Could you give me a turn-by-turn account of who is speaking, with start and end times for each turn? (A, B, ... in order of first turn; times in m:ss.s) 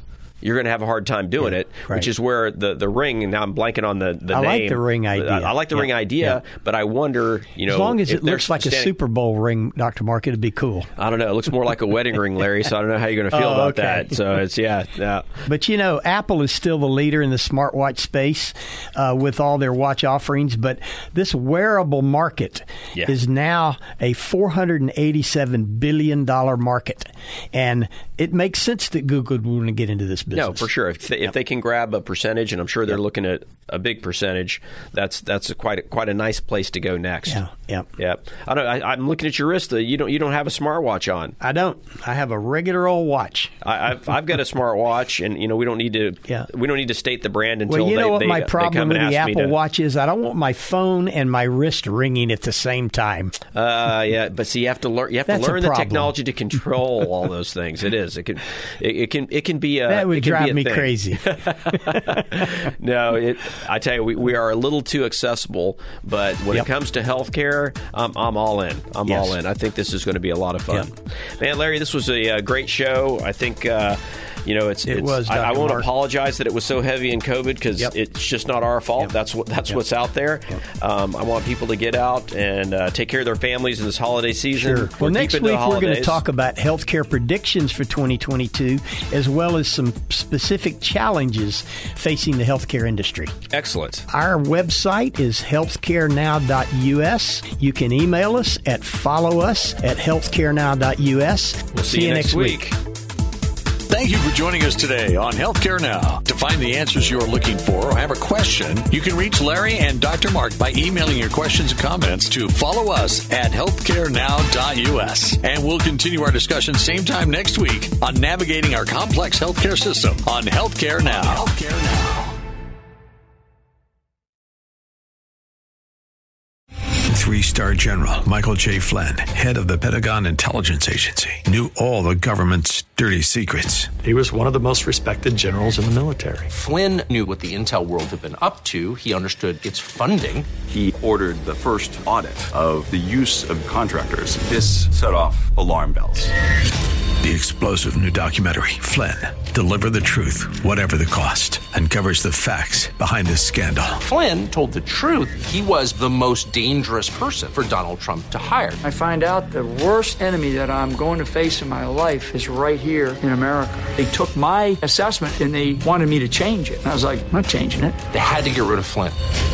0:00.4-0:08.9 A
0:04.3-0:06.4 B
0:07.7-0:10.9 B
0:11.0-0:15.4 A
0:13.3-0:14.1 B
0:15.5-0:30.6 B
0:30.3-0:37.4 A
0:37.3-0:37.9 B
0:38.0-0:41.4 A
0:41.4-0:43.5 B
0:43.6-0:49.6 A
0:47.7-0:53.4 B
0:53.5-1:26.2 A
0:55.3-0:56.1 B
0:59.9-1:02.2 B
1:09.1-1:09.3 B
1:14.8-1:15.9 B
1:24.6-1:33.3 B
1:33.5-1:34.0 A
1:34.1-1:42.6 B
1:41.7-1:42.8 A
1:43.9-2:02.3 C
2:07.0-2:13.9 D
2:14.0-2:16.5 E
2:16.5-2:20.5 F
2:20.7-2:26.3 G
2:27.2-2:34.0 D
2:34.0-2:38.8 F
2:38.8-2:48.0 H
2:48.1-2:49.2 F